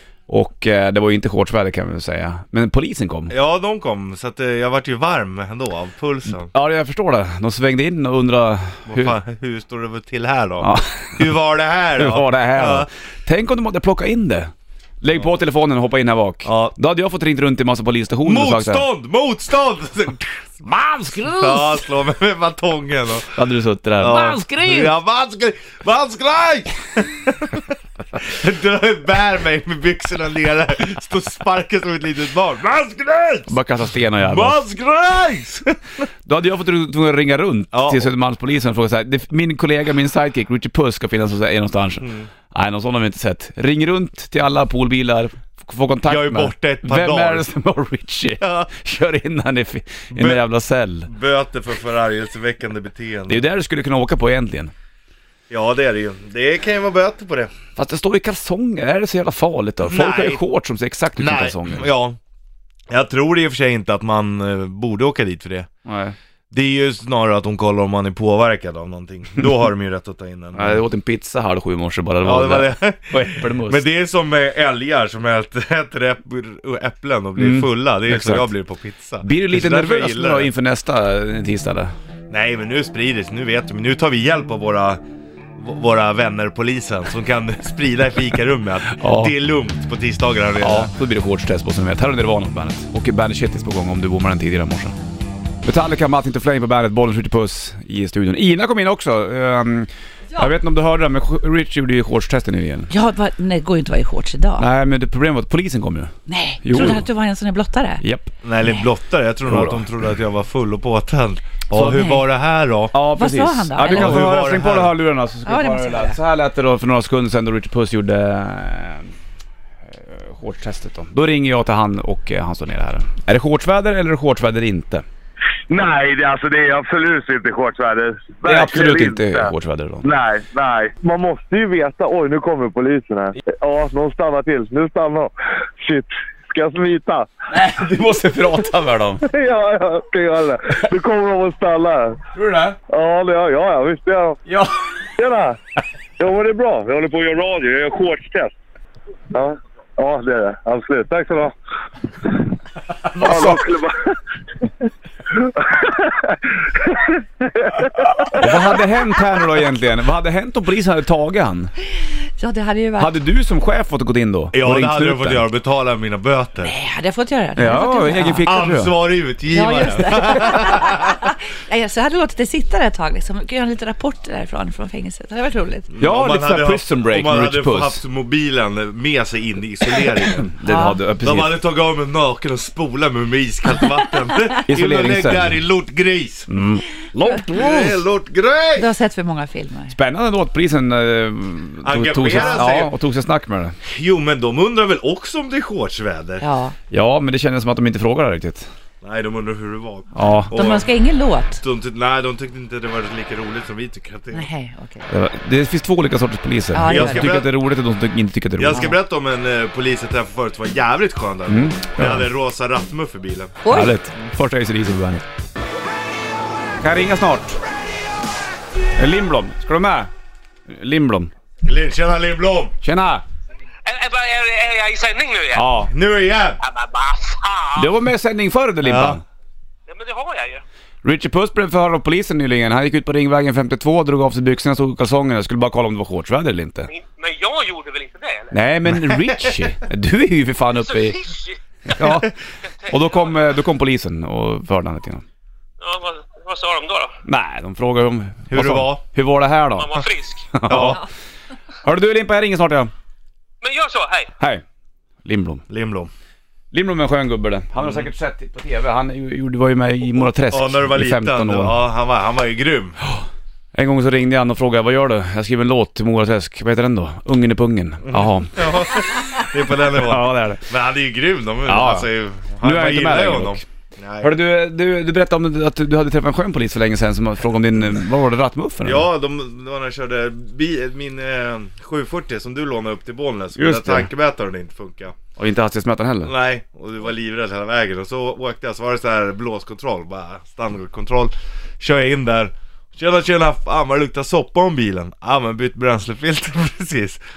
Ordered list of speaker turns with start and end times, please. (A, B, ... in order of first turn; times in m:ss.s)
0:00.3-0:03.3 A
0:03.3-0:06.5 B
0:06.4-0:09.2 A
0:08.9-0:12.9 B
0:10.6-0:11.2 A
0:12.0-0:18.9 A
0:16.4-0:16.8 B
0:18.2-0:20.4 B
0:20.6-0:21.8 A
0:21.2-0:23.4 B
0:23.3-0:24.9 A
0:24.0-0:33.5 B
0:33.5-0:34.6 A
0:34.2-0:36.0 B
0:36.2-0:51.1 A
0:37.7-0:38.1 B
0:42.0-0:42.3 B
0:46.0-0:47.5 B
0:48.4-0:48.7 B
0:50.1-0:50.4 B
0:51.0-0:53.4 B
0:53.3-0:54.7 A
0:55.5-0:57.5 B
0:57.8-1:01.9 A
0:59.8-1:00.4 B
1:01.2-1:02.2 B
1:02.9-1:05.7 B
1:05.8-1:06.1 A
1:06.5-1:10.8 B
1:10.5-1:13.8 A
1:12.2-1:20.5 B
1:17.4-1:18.5 A
1:19.2-1:21.9 A
1:22.3-1:25.0 B
1:25.6-1:30.9 B
1:28.9-1:29.3 A
1:30.6-1:34.9 A
1:35.6-1:42.9 A
1:42.9-1:44.6 C
1:44.6-1:47.1 A
1:46.3-1:48.0 C
1:48.0-1:48.3 A
1:48.4-1:52.9 B
1:49.5-1:49.8 A
1:51.7-1:52.1 A
1:51.9-1:52.2 C
1:52.9-1:59.1 A
1:53.0-1:54.3 C
1:53.8-1:54.9 B
1:55.4-1:56.2 C
1:59.9-2:05.0 A
2:05.7-2:09.5 D
2:08.4-2:10.1 A
2:10.0-2:17.3 D
2:17.5-2:19.2 A
2:19.2-2:22.2 D
2:22.3-2:22.8 A
2:22.9-2:24.4 D
2:24.5-2:24.9 A
2:25.2-2:25.6 D
2:26.2-2:28.5 D
2:29.3-2:31.5 D
2:33.0-2:33.7 A
2:33.2-2:38.5 D
2:38.3-2:41.7 A
2:42.4-2:43.2 C
2:43.0-2:45.5 A
2:44.5-2:46.7 B
2:46.6-2:48.5 C
2:47.6-2:49.0 A
2:48.4-2:51.3 B
2:49.5-2:55.9 C
2:55.9-3:00.5 B
2:56.0-2:58.0 A
3:00.4-3:01.6 A
3:00.6-3:01.0 C
3:01.2-3:06.5 B
3:04.7-3:05.6 A
3:06.5-3:08.0 A
3:07.5-3:08.9 B
3:08.7-3:09.9 C
3:09.9-3:13.8 A
3:11.8-3:12.9 B
3:13.8-3:16.4 B
3:16.4-3:16.8 C
3:16.9-3:18.7 A
3:19.0-3:20.9 B
3:20.1-3:20.6 A
3:20.5-3:21.6 C
3:21.6-3:24.5 B
3:24.3-3:25.0 C
3:25.1-3:28.9 A
3:26.7-3:27.4 C
3:26.8-3:27.5 B
3:28.6-3:33.6 B
3:31.5-3:32.3 A
3:33.6-3:33.9 C
3:33.7-3:35.2 A
3:36.8-3:37.6 A
3:39.0-3:40.1 A
3:40.7-3:41.3 A
3:41.6-3:42.7 B
3:42.8-3:43.2 A
3:43.8-3:45.7 E
3:45.5-3:45.9 A
3:45.8-3:46.6 B
3:46.6-3:47.9 E
3:47.8-3:49.2 A
3:48.8-3:49.2 B
3:49.9-3:50.6 E
3:51.0-3:56.9 A
3:56.9-3:58.5 E
3:58.5-4:01.2 A
3:59.1-3:59.4 B
4:00.8-4:01.6 E
4:01.8-4:02.4 A
4:02.9-4:03.3 E
4:02.9-4:05.2 A
4:05.8-4:07.2 E
4:07.2-4:10.0 A
4:08.5-4:09.0 B
4:09.8-4:10.7 E
4:10.5-4:11.0 A
4:10.6-4:11.0 B
4:11.8-4:12.9 A
4:13.6-4:14.3 E
4:15.2-4:15.6 A
4:15.7-4:16.1 B
4:16.7-4:21.8 A
4:17.8-4:18.1 B
4:20.5-4:23.0 B
4:23.7-4:28.8 A
4:28.0-4:34.4 B
4:30.0-4:30.7 A
4:31.6-4:33.6 A
4:34.2-4:39.1 A
4:38.8-4:45.2 B
4:43.5-4:44.1 A
4:45.4-4:46.3 A
4:46.2-4:57.2 B